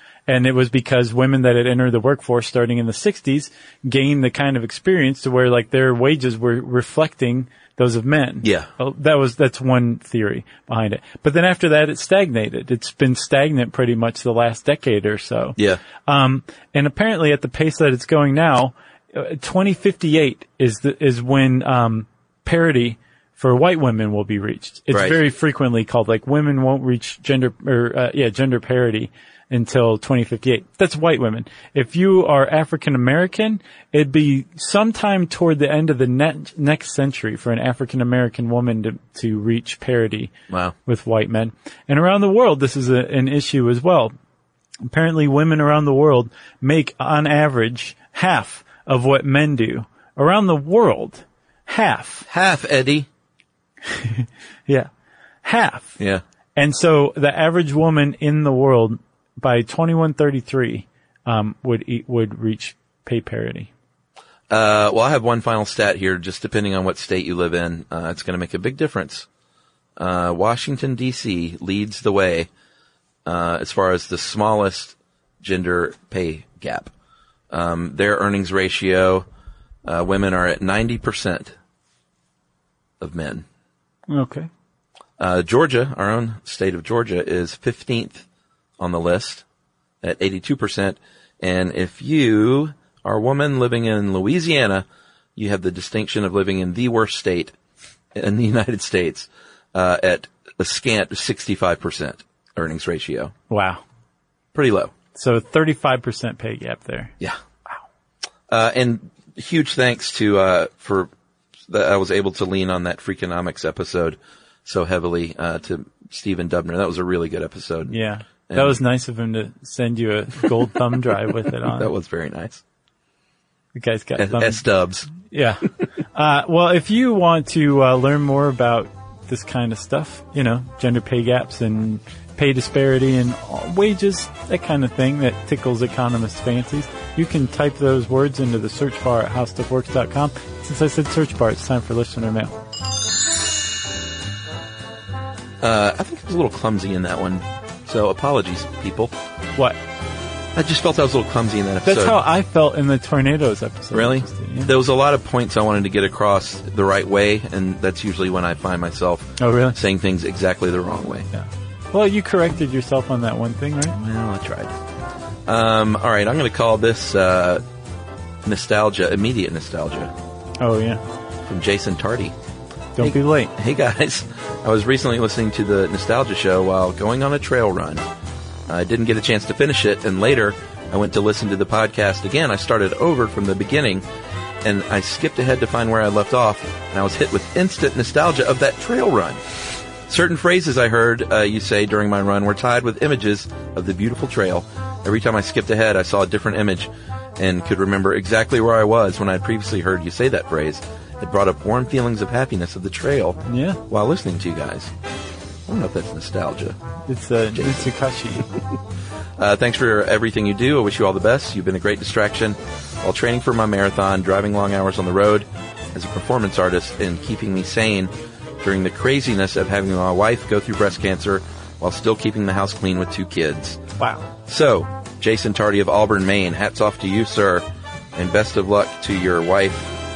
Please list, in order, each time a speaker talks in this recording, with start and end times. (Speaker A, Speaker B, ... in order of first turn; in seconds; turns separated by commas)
Speaker A: 0.3-40.3, Speaker B: 8.4-8.7, Speaker B: 15.6-15.8, Speaker B: 24.9-25.2, Speaker B: 40.5-40.7, Speaker A: 40.9-44.1, Speaker A: 44.9-52.3, Speaker B: 52.3-53.1, Speaker A: 53.9-54.9, Speaker A: 55.4-56.0, Speaker A: 56.5-63.7, Speaker B: 64.5-69.2, Speaker B: 70.0-72.5, Speaker B: 73.2-76.9, Speaker B: 77.5-79.2, Speaker B: 79.8-81.5, Speaker B: 83.0-83.4, Speaker A: 84.1-84.5, Speaker B: 85.2-88.2, Speaker B: 88.8-89.4, Speaker B: 90.0-94.8, Speaker B: 95.4-97.5, Speaker B: 98.1-103.3, Speaker A: 103.5-103.8, Speaker B: 104.5-104.9, Speaker A: 105.1-107.1, Speaker B: 108.5-111.1, Speaker B: 111.7-117.9, Speaker A: 117.9-121.9, Speaker B: 118.5-118.8, Speaker B: 121.6-122.6, Speaker A: 123.7-124.6, Speaker B: 124.2-125.1, Speaker A: 125.2-142.5, Speaker B: 145.6-149.1, Speaker B: 150.6-152.2, Speaker A: 151.8-154.7, Speaker B: 153.9-161.3, Speaker A: 159.4-159.8, Speaker A: 161.3-164.0, Speaker B: 163.9-164.7, Speaker B: 165.5-167.6, Speaker B: 168.4-170.1, Speaker A: 170.6-171.0, Speaker B: 171.5-172.3, Speaker A: 172.9-173.5, Speaker B: 173.0-178.0, Speaker B: 178.7-184.0, Speaker B: 184.6-189.4, Speaker B: 190.1-204.9, Speaker A: 203.4-203.8, Speaker B: 205.7-206.8, Speaker A: 207.1-208.5, Speaker B: 207.6-207.9, Speaker B: 209.4-223.8, Speaker A: 224.0-224.2, Speaker B: 224.4-227.6, Speaker B: 228.2-229.9